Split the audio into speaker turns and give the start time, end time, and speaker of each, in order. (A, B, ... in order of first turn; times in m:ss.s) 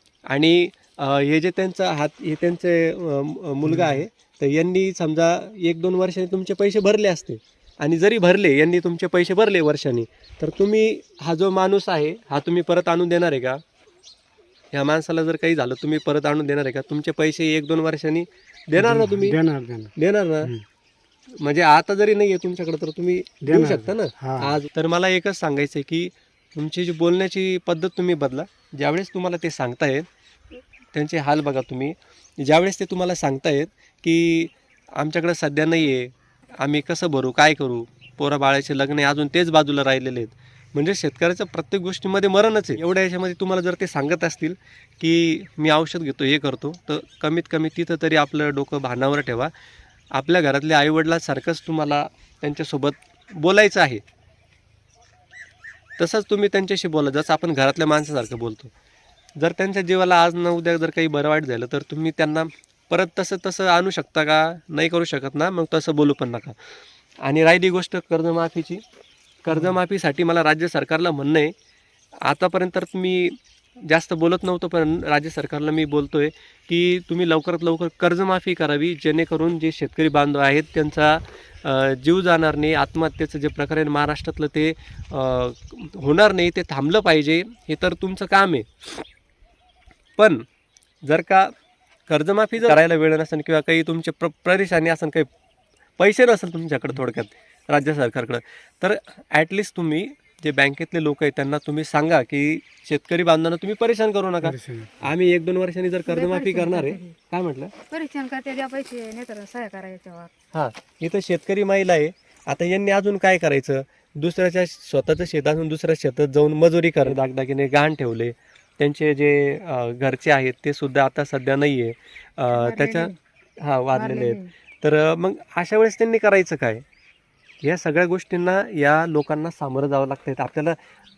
0:00.3-0:13.6 A
0:03.6-0:04.0 B
0:14.7-0:19.4 A
0:18.8-0:20.6 B
0:20.0-0:20.5 A
0:21.4-0:30.0 A
0:23.4-0:24.6 B
0:30.9-0:49.5 A
0:50.1-0:54.0 A
0:56.0-0:58.7 A
0:59.4-1:06.6 A
1:07.2-1:08.8 A
1:09.4-1:11.5 A
1:12.2-1:29.0 A
1:30.2-1:30.4 A
1:31.0-1:31.5 A
1:32.1-1:35.3 A
1:36.0-1:47.7 A
1:44.4-1:44.9 B
1:46.0-1:47.1 C
1:47.9-1:50.3 C
1:50.5-2:06.8 A
2:02.5-2:03.2 C
2:03.9-2:04.5 C
2:07.6-2:10.8 A